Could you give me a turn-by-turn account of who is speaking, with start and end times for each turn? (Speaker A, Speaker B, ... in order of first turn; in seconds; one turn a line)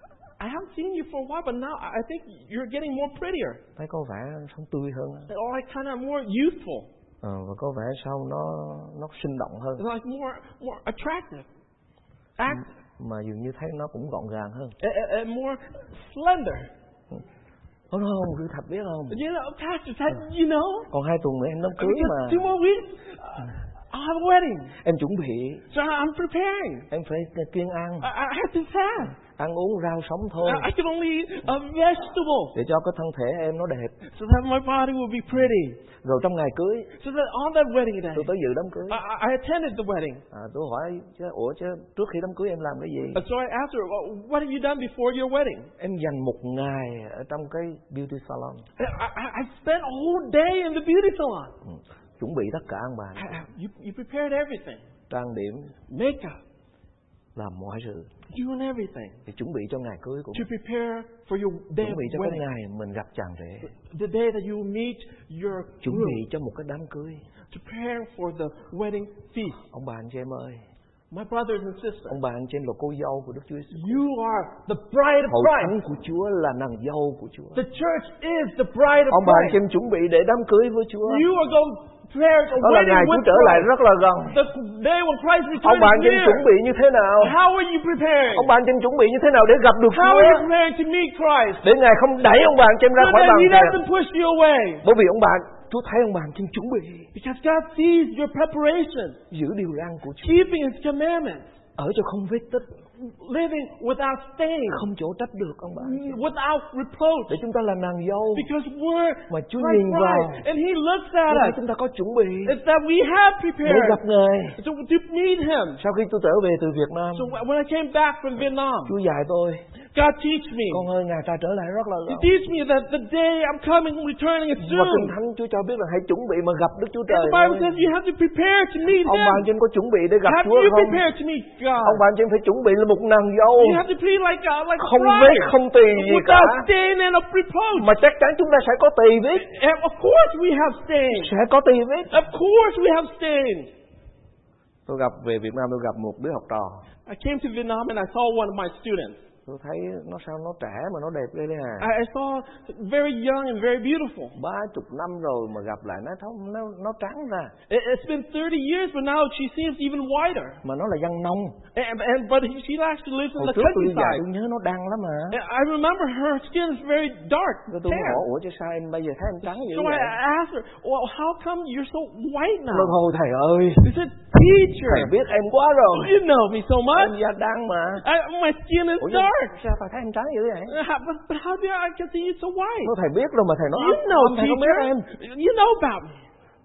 Speaker A: 0.4-3.6
Speaker B: 3.8-5.3
Speaker A: 5.3-6.9
Speaker B: 7.2-9.8
Speaker A: 9.8-11.5
Speaker A: 12.4-12.7
Speaker B: 12.5-14.8
Speaker A: 14.8-16.7
Speaker B: 17.9-19.2
Speaker A: 19.1-20.9
Speaker B: 20.9-22.5
Speaker A: 21.8-24.8
Speaker B: 24.8-25.6
Speaker A: 25.7-26.9
Speaker B: 26.9-28.1
Speaker A: 28.0-29.2
Speaker B: 29.1-30.7
Speaker A: 30.4-32.6
Speaker B: 32.5-34.0
Speaker A: 34.1-35.8
Speaker B: 36.0-36.9
Speaker A: 37.0-38.3
Speaker B: 38.1-39.0
Speaker A: 38.9-40.2
Speaker B: 40.3-43.2
Speaker A: 43.1-45.7
Speaker B: 45.8-48.6
Speaker A: 48.8-51.5
Speaker B: 51.6-53.4
Speaker A: 53.2-54.8
Speaker B: 55.1-55.7
Speaker A: 55.9-56.4
Speaker B: 57.4-58.1
Speaker A: 58.3-59.2
Speaker B: 59.3-60.5
Speaker A: 60.3-62.5
Speaker B: 61.8-63.7
Speaker A: 63.7-66.2
Speaker B: 65.8-67.2
Speaker A: 67.5-69.6
Speaker B: 69.7-70.6
Speaker A: 71.1-72.2
Speaker B: 72.1-74.0
Speaker A: 73.7-75.8
Speaker B: 75.3-77.6
Speaker A: 77.5-79.6
Speaker B: 79.1-81.3
Speaker A: 81.0-83.7
Speaker B: 82.6-84.4
Speaker A: 84.3-86.5
Speaker B: 85.6-87.4
Speaker A: 87.2-88.5
Speaker B: 88.3-90.5
Speaker A: 89.9-91.7
Speaker B: 91.6-93.8
Speaker A: 93.0-94.8
Speaker B: 94.8-97.1
Speaker A: 97.1-99.2
Speaker B: 99.3-100.4
Speaker A: 100.2-101.5
Speaker B: 101.8-102.7
Speaker A: 103.0-104.9
Speaker B: 104.7-106.2
Speaker A: 105.8-107.4
Speaker B: 107.3-108.5
Speaker A: 108.3-111.6
Speaker B: 109.3-110.5
Speaker B: 111.3-112.6
Speaker A: 112.5-114.0
Speaker B: 113.6-114.6
Speaker A: 114.6-115.8
Speaker B: 115.8-117.3
Speaker A: 117.1-119.0
Speaker B: 118.9-119.6
Speaker A: 119.9-120.9
Speaker B: 120.7-122.3
Speaker A: 122.1-125.2
Speaker B: 124.6-127.8
Speaker A: 127.1-129.5
Speaker B: 129.0-131.1
Speaker A: 130.2-132.0
Speaker B: 131.8-133.8
Speaker A: 133.6-137.9
Speaker B: 134.8-136.7
Speaker B: 137.8-139.5
Speaker A: 139.4-141.3
Speaker B: 141.1-142.2
Speaker A: 142.1-143.7
Speaker B: 144.9-146.8
Speaker A: 147.1-149.2
Speaker B: 149.5-151.9
Speaker A: 151.8-154.4
Speaker B: 154.3-157.5
Speaker A: 157.7-160.6
Speaker B: 160.6-161.6
Speaker A: 161.8-164.2
Speaker B: 163.4-165.4
Speaker A: 165.3-168.2
Speaker B: 167.7-170.2
Speaker A: 169.4-173.0
Speaker B: 172.7-173.9
Speaker A: 173.8-175.1
Speaker B: 174.8-176.2
Speaker A: 175.9-177.2
Speaker B: 176.9-178.1
Speaker A: 178.0-179.6
Speaker B: 179.0-180.8
Speaker A: 180.7-182.9
Speaker B: 182.8-185.1
Speaker A: 183.7-186.2